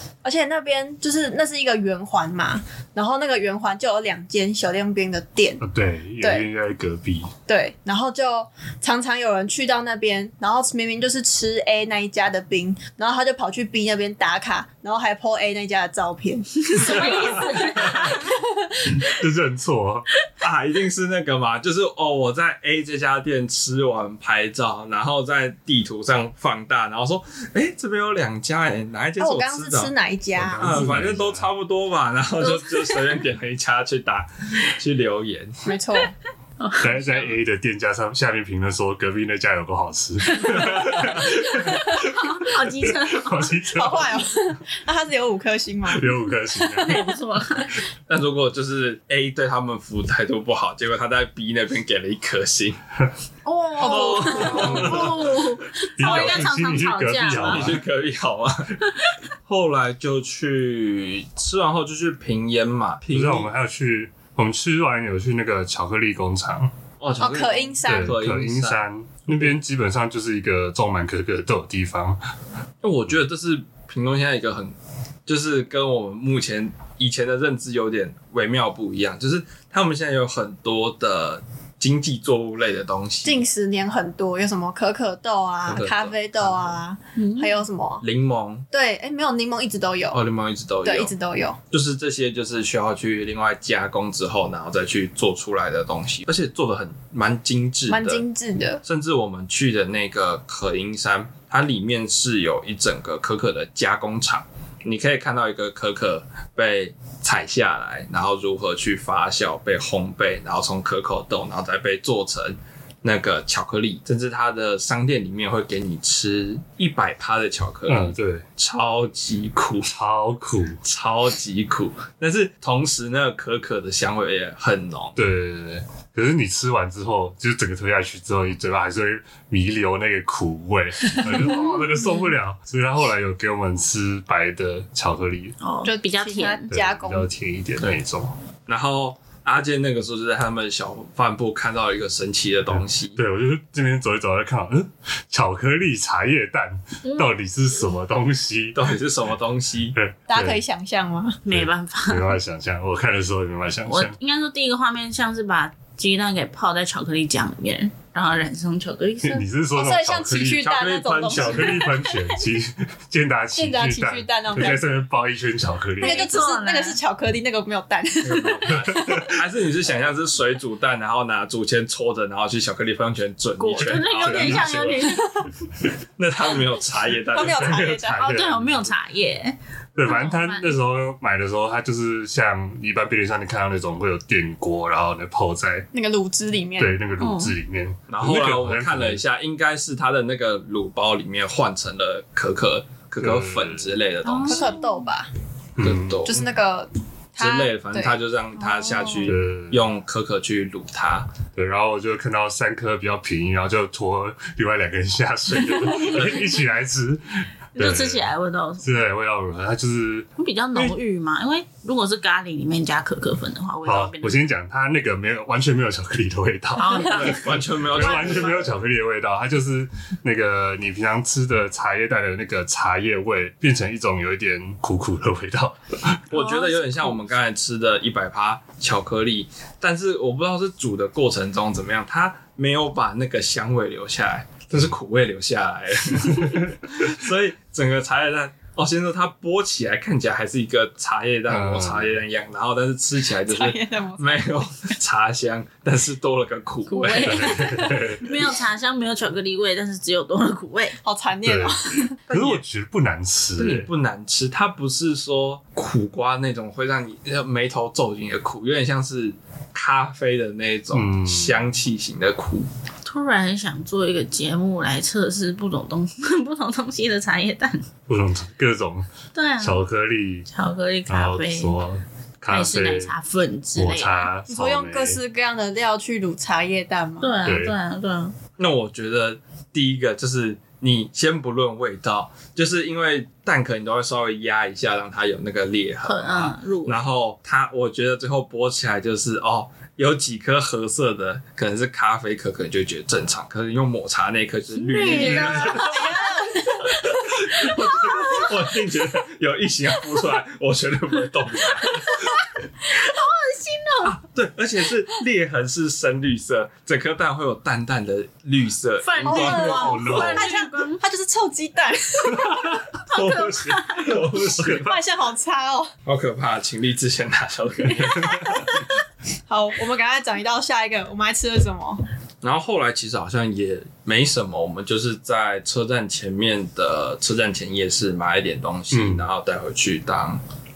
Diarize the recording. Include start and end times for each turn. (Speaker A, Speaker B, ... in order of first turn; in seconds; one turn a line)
Speaker A: 0.2-5.6
Speaker B: 5.6-7.3
Speaker A: 6.2-6.5
Speaker A: 7.5-18.4
Speaker C: 16.7-18.3
Speaker D: 16.9-17.5
Speaker B: 18.9-20.1
Speaker D: 20.4-29.9
Speaker A: 29.2-30.9
Speaker B: 30.3-31.5
Speaker D: 30.6-35.6
Speaker C: 32.4-33.1
Speaker A: 35.6-36.1
Speaker C: 36.6-37.3
Speaker B: 36.8-44.3
Speaker C: 41.2-43.4
Speaker A: 43.7-46.3
Speaker B: 45.9-47.1
Speaker C: 46.6-47.8
Speaker D: 48.1-52.8
Speaker C: 53.4-57.8
Speaker D: 53.8-55.4
Speaker A: 53.8-54.8
Speaker B: 54.5-55.2
Speaker B: 56.0-57.8
Speaker D: 56.0-56.5
Speaker D: 57.3-58.8
Speaker D: 59.5-63.5
Speaker B: 63.1-66.7
Speaker D: 67.0-69.5
Speaker A: 67.2-68.1
Speaker B: 67.8-72.2
Speaker D: 72.8-74.7
Speaker D: 75.3-83.4
Speaker A: 83.2-88.0
Speaker D: 85.7-86.8
Speaker C: 87.2-87.6
Speaker D: 88.0-88.7
Speaker A: 88.7-90.2
Speaker D: 90.1-91.1
Speaker A: 90.8-91.6
Speaker D: 91.7-98.2
Speaker A: 97.9-98.8
Speaker D: 98.8-119.9
Speaker B: 117.9-118.4
Speaker B: 119.9-120.8
Speaker D: 120.8-125.2
Speaker B: 125.2-135.6
Speaker C: 131.3-132.3
Speaker C: 135.6-136.6
Speaker A: 135.8-137.3
Speaker B: 136.7-138.3
Speaker D: 138.7-143.2
Speaker B: 142.7-148.9
Speaker C: 147.0-147.3
Speaker D: 148.7-150.0
Speaker B: 149.9-150.6
Speaker A: 150.3-151.4
Speaker C: 151.4-152.3
Speaker B: 151.5-154.2
Speaker C: 153.9-159.5
Speaker B: 159.2-160.7
Speaker A: 159.7-161.8
Speaker D: 160.6-161.9
Speaker B: 161.3-166.3
Speaker C: 162.0-162.3
Speaker A: 163.5-164.8
Speaker C: 166.0-167.0
Speaker A: 166.0-169.3
Speaker D: 168.2-175.0
Speaker B: 168.7-169.2
Speaker C: 173.6-175.5
Speaker B: 173.8-175.2
Speaker D: 176.2-177.9
Speaker A: 177.3-178.3
Speaker B: 177.3-178.9
Speaker C: 178.2-180.7
Speaker B: 179.9-185.9
Speaker A: 185.9-187.0
Speaker B: 186.8-189.2
Speaker C: 187.2-187.5
Speaker D: 188.1-194.7
Speaker B: 193.2-193.9
Speaker C: 194.2-195.1
Speaker A: 194.4-195.3
Speaker B: 195.8-196.3
Speaker D: 195.8-196.5
Speaker A: 196.2-198.2
Speaker D: 197.4-201.3
Speaker C: 198.6-199.3
Speaker B: 199.2-199.8
Speaker B: 201.5-208.3
Speaker C: 205.7-206.6
Speaker D: 206.1-206.4
Speaker C: 207.8-208.8
Speaker B: 208.8-210.9
Speaker C: 210.4-214.4
Speaker B: 213.8-226.2
Speaker C: 216.8-218.6
Speaker D: 217.1-218.6
Speaker D: 226.3-248.1
Speaker C: 226.3-227.2
Speaker B: 241.5-242.1
Speaker A: 243.5-244.6
Speaker C: 246.9-251.0
Speaker B: 247.1-248.3
Speaker A: 251.0-252.2
Speaker B: 251.4-253.9
Speaker D: 252.3-252.6
Speaker D: 253.6-262.7
Speaker B: 260.9-261.6
Speaker C: 263.0-267.9
Speaker B: 268.1-270.4
Speaker C: 269.3-269.8
Speaker C: 270.5-271.8
Speaker B: 271.1-273.1
Speaker C: 272.5-274.3
Speaker B: 273.7-275.2
Speaker A: 274.5-277.4
Speaker C: 277.2-278.3
Speaker B: 277.4-277.8
Speaker D: 278.6-296.2
Speaker C: 286.0-287.0
Speaker C: 294.9-298.5
Speaker A: 295.2-297.0
Speaker D: 296.9-302.3
Speaker C: 301.9-304.1
Speaker D: 304.0-310.4
Speaker C: 309.0-311.0
Speaker A: 309.2-312.8
Speaker B: 309.6-310.5
Speaker B: 312.3-312.8
Speaker C: 313.1-314.1
Speaker D: 313.1-314.9
Speaker B: 313.7-314.9
Speaker A: 314.6-315.9
Speaker D: 316.1-318.7
Speaker A: 318.1-318.8
Speaker A: 319.5-322.0
Speaker D: 322.4-330.4
Speaker B: 328.9-329.3